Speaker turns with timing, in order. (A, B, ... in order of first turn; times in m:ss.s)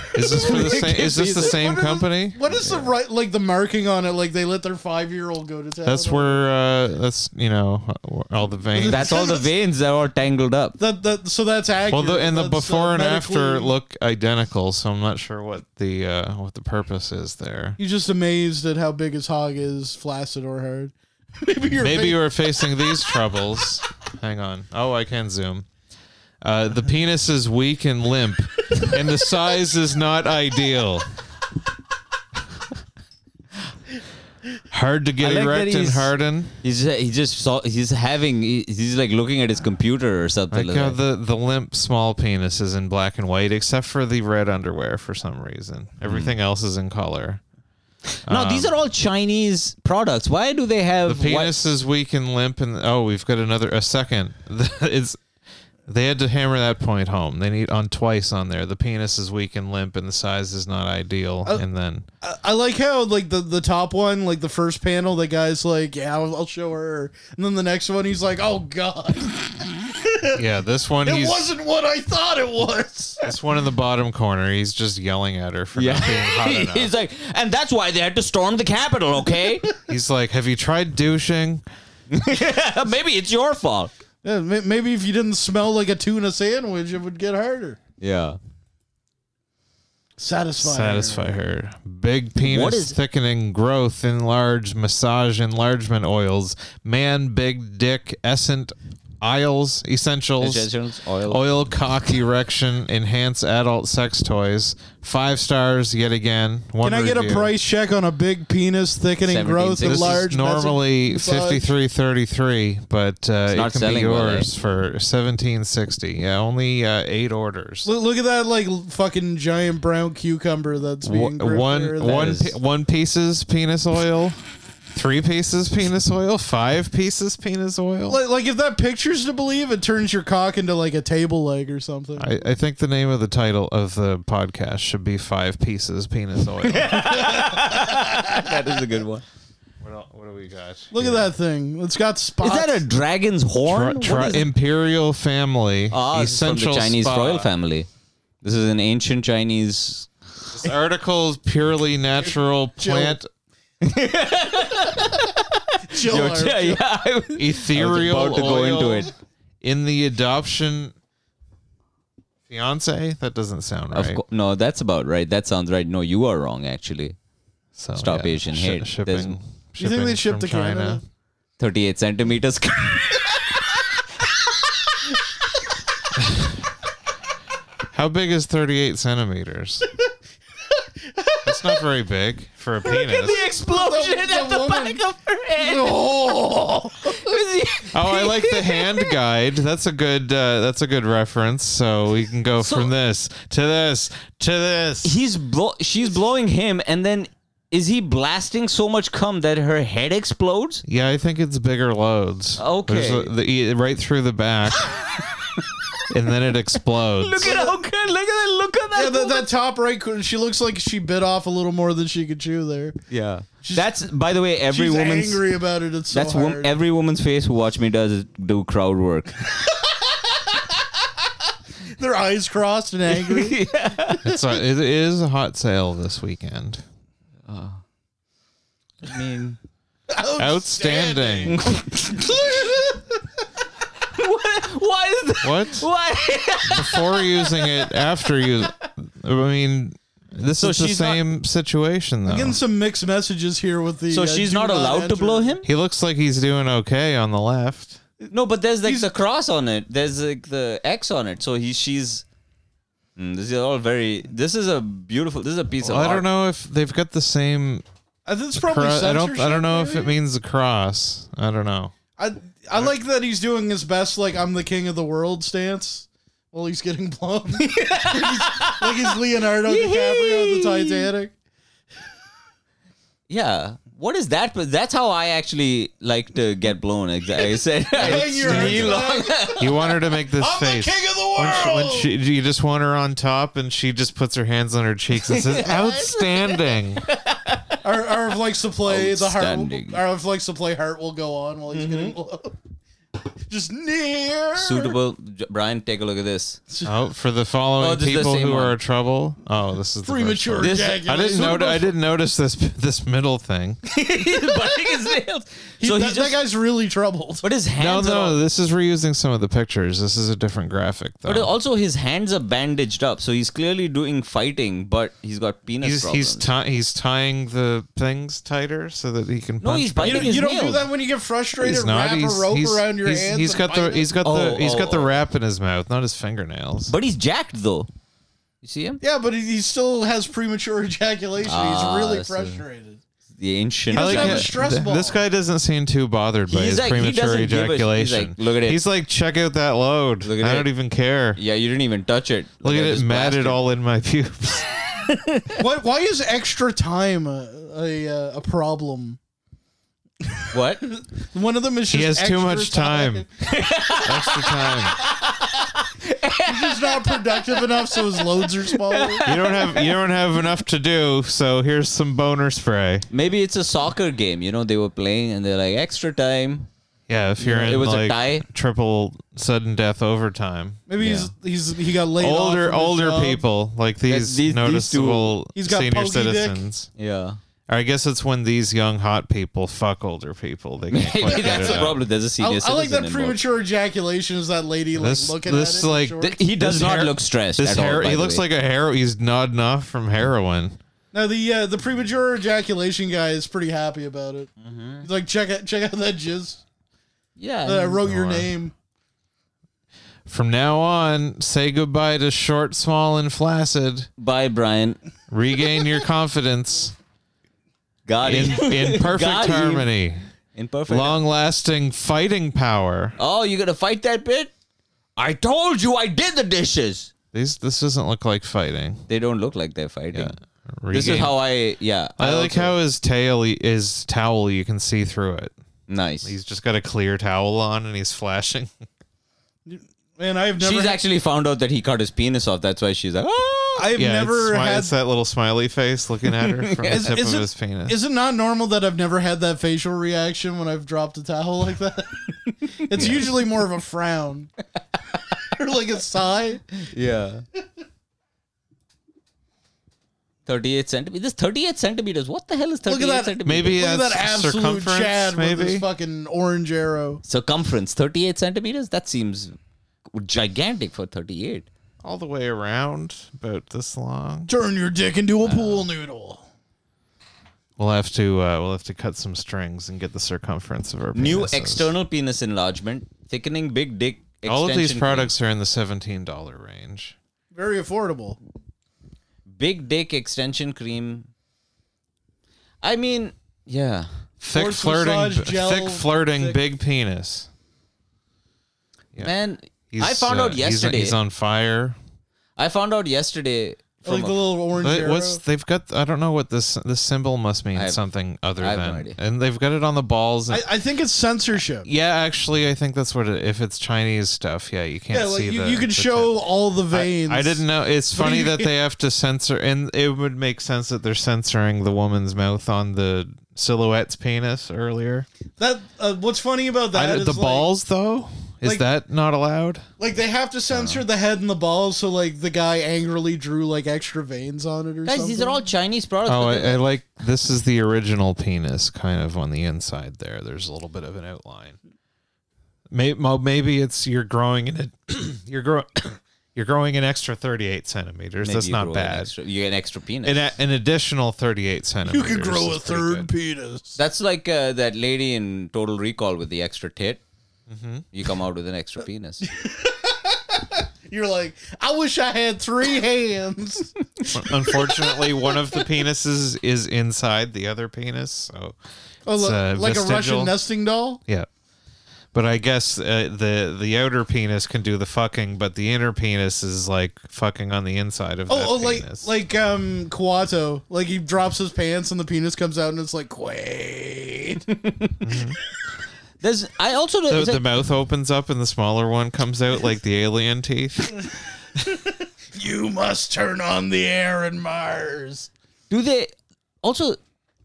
0:00.1-0:02.4 A
0:00.3-0:01.6 B
0:00.3-0:06.4 C
0:02.6-0:02.9 B
0:05.8-0:09.3 A
0:08.7-0:09.5 C
0:08.8-0:10.8 B
0:10.8-0:13.7 C
0:11.9-0:17.8 A
0:17.8-0:22.2 C
0:21.8-0:25.7 A
0:26.4-0:31.1 A
0:34.7-0:36.5 A
0:35.2-0:41.0 B
0:40.5-0:47.4 A
0:46.0-0:46.3 B
0:48.2-0:48.7 A
0:48.2-0:51.7 B
0:51.0-0:55.2 A
0:55.9-1:02.1 A
1:02.2-1:10.4 C
1:10.3-1:11.5 A
1:11.0-1:13.2 C
1:13.2-1:16.9 A
1:15.7-1:19.7 B
1:19.9-1:21.6 A
1:22.1-1:23.9 B
1:24.2-1:27.8 C
1:28.0-1:28.4 B
1:30.2-1:31.4 C
1:30.6-1:40.7 A
1:32.4-1:33.0 B
1:40.4-1:41.4 B
1:41.2-1:47.5 A
1:46.8-1:51.7 C
1:49.2-1:50.2 B
1:49.8-1:57.9 A
1:53.5-1:54.5 B
1:57.8-2:02.3 C
2:01.0-2:04.4 A
2:02.0-2:02.6 B
2:04.9-2:08.2 A
2:08.1-2:12.4 C
2:12.2-2:17.3 A
2:16.6-2:19.2 B
2:19.8-2:21.3 A
2:20.9-2:22.8 C
2:22.4-2:24.5 B
2:23.6-2:27.5 A
2:25.9-2:27.9 B
2:28.4-2:30.1 B
2:30.5-2:33.3 A
2:32.2-2:33.2 C
2:33.8-2:35.3 B
2:35.9-2:39.1 B
2:35.9-2:36.8 C
2:37.4-2:40.9 A
2:42.5-2:44.2 A
2:43.9-2:47.2 B
2:47.7-2:51.0 A
2:48.0-2:49.4 B
2:49.8-2:51.0 C
2:51.6-2:53.4 B
2:56.2-2:56.5 A
2:57.9-2:59.9 A
3:01.4-3:03.4 A
3:02.9-3:06.4 B
3:03.3-3:05.0 C
3:05.6-3:07.2 C
3:07.0-3:09.1 B
3:07.9-3:15.2 A
3:12.6-3:12.9 B
3:15.0-3:20.8 B
3:20.8-3:24.9 A
3:22.6-3:23.3 B
3:26.1-3:27.5 A
3:27.2-3:29.5 B
3:27.4-3:27.8 C
3:28.9-3:33.0 C
3:33.1-3:35.4 B
3:33.6-3:33.9 C
3:34.7-3:36.7 C
3:36.1-3:39.4 B
3:42.0-3:43.6 C
3:43.1-3:44.2 B
3:44.2-3:46.8 A
3:47.5-3:47.8 B
3:49.0-3:49.6 B
3:50.1-3:51.6 C
3:50.4-3:51.6 A
3:51.5-3:52.6 B
3:54.1-3:57.7 B
3:55.4-3:55.9 A
3:56.7-4:02.6 A
4:00.6-4:01.2 B
4:02.2-4:05.5 C
4:04.1-4:05.6 B
4:05.6-4:08.0 A
4:08.3-4:12.2 B
4:08.8-4:09.1 C
4:13.2-4:16.3 B
4:15.8-4:17.8 A
4:18.2-4:20.1 C
4:18.5-4:21.9 A
4:22.2-4:31.3 C
4:27.6-4:31.1 B
4:33.3-4:39.7 B
4:37.9-4:42.1 C
4:38.0-4:39.0 A
4:39.6-4:47.0 A
4:45.2-4:46.6 B
4:47.1-4:47.8 B
4:47.8-4:52.5 C
4:48.8-4:50.0 B
4:51.7-4:52.1 B
4:53.5-4:55.0 C
4:54.6-4:56.6 B
4:56.7-4:57.0 C
4:56.8-5:03.8 A
4:57.8-4:58.8 B
5:00.0-5:01.9 C
5:00.6-5:01.7 B
5:03.9-5:06.4 B
5:05.8-5:07.4 C
5:07.4-5:08.4 B
5:07.8-5:11.5 A
5:11.2-5:16.5 B
5:15.8-5:20.4 A
5:19.6-5:20.8 B
5:20.0-5:24.1 C
5:21.6-5:26.9 A
5:24.2-5:25.1 B
5:26.9-5:27.9 B
5:28.6-5:29.0 B
5:29.0-5:33.0 C
5:31.4-5:32.6 B
5:33.4-5:34.5 B
5:33.9-5:35.2 C
5:33.9-5:41.4 A
5:36.5-5:38.8 B
5:40.2-5:40.7 B
5:41.4-5:43.6 B
5:42.6-5:44.7 A
5:45.1-5:45.5 B
5:45.6-5:49.2 C
5:50.5-5:50.9 B
5:51.0-5:53.3 C
5:51.9-5:53.3 A
5:53.4-5:59.9 B
5:54.0-5:55.0 A
5:56.4-5:59.2 C
5:59.2-6:03.1 A
6:03.1-6:06.7 B
6:07.1-6:10.8 A
6:07.4-6:08.4 B
6:10.9-6:13.4 C
6:11.0-6:11.3 B
6:12.2-6:16.9 A
6:14.1-6:15.4 B
6:15.5-6:16.6 C
6:17.0-6:17.4 B
6:17.7-6:22.0 A
6:20.9-6:23.4 B
6:21.2-6:26.4 C
6:24.9-6:30.8 A
6:26.2-6:28.4 B
6:31.1-6:34.5 C
6:34.6-6:35.0 B
6:35.0-6:36.6 C
6:37.4-6:38.0 B
6:37.6-6:38.7 C
6:38.0-6:38.5 A
6:40.3-6:44.1 A
6:44.2-6:45.0 B
6:45.3-6:46.9 A
6:48.0-6:49.9 B
6:48.2-6:50.2 A
6:50.5-6:51.2 B
6:50.9-6:53.2 A
6:53.2-6:54.5 B
6:55.2-6:57.1 B
6:57.3-6:59.0 A
6:59.1-7:00.3 B
7:00.1-7:01.4 A
7:00.9-7:02.8 B
7:02.2-7:05.5 A
7:05.9-7:06.3 B
7:06.2-7:08.7 A
7:09.6-7:11.0 C
7:10.6-7:13.9 B
7:13.8-7:14.9 C
7:14.0-7:18.0 A
7:16.4-7:17.0 B
7:16.8-7:24.5 C
7:22.9-7:23.2 B
7:25.5-7:26.7 C
7:26.9-7:27.4 B
7:30.4-7:33.8 B
7:32.8-7:37.2 C
7:33.4-7:35.8 A
7:37.2-7:39.5 B
7:40.1-7:41.7 B
7:42.0-7:44.5 A
7:44.5-7:46.4 C
7:45.4-7:45.8 B
7:47.8-7:51.9 A
7:51.1-7:55.3 B
7:54.4-7:57.2 A
7:57.5-7:58.4 C
7:59.5-8:01.3 B
8:02.8-8:04.1 B
8:04.4-8:07.5 A
8:04.5-8:06.6 C
8:09.2-8:11.2 B
8:09.9-8:12.0 A
8:12.6-8:14.4 B
8:14.0-8:15.4 C
8:14.7-8:20.7 A
8:17.7-8:18.0 B
8:18.6-8:19.2 B
8:20.5-8:21.9 C
8:21.8-8:35.3 A
8:25.1-8:27.6 C
8:28.1-8:28.7 C
8:35.6-8:37.7 C
8:36.9-8:39.8 A
8:40.0-8:45.6 C
8:40.7-8:41.0 B
8:45.0-8:46.8 B
8:46.2-8:51.8 A
8:52.9-8:59.3 A
8:58.4-9:00.5 B
9:00.2-9:03.3 A
9:02.0-9:04.0 C
9:04.0-9:07.2 B
9:07.7-9:08.1 A
9:08.1-9:09.5 B
9:09.5-9:15.5 C
9:14.3-9:18.8 A
9:19.2-9:21.2 C
9:19.3-9:20.6 A
9:22.3-9:29.3 A
9:28.5-9:34.6 C
9:34.7-9:35.2 B
9:35.2-9:35.6 A
9:36.4-9:37.7 B
9:37.3-9:41.2 A
9:42.5-9:45.5 C
9:45.9-9:46.3 B
9:46.8-9:47.2 B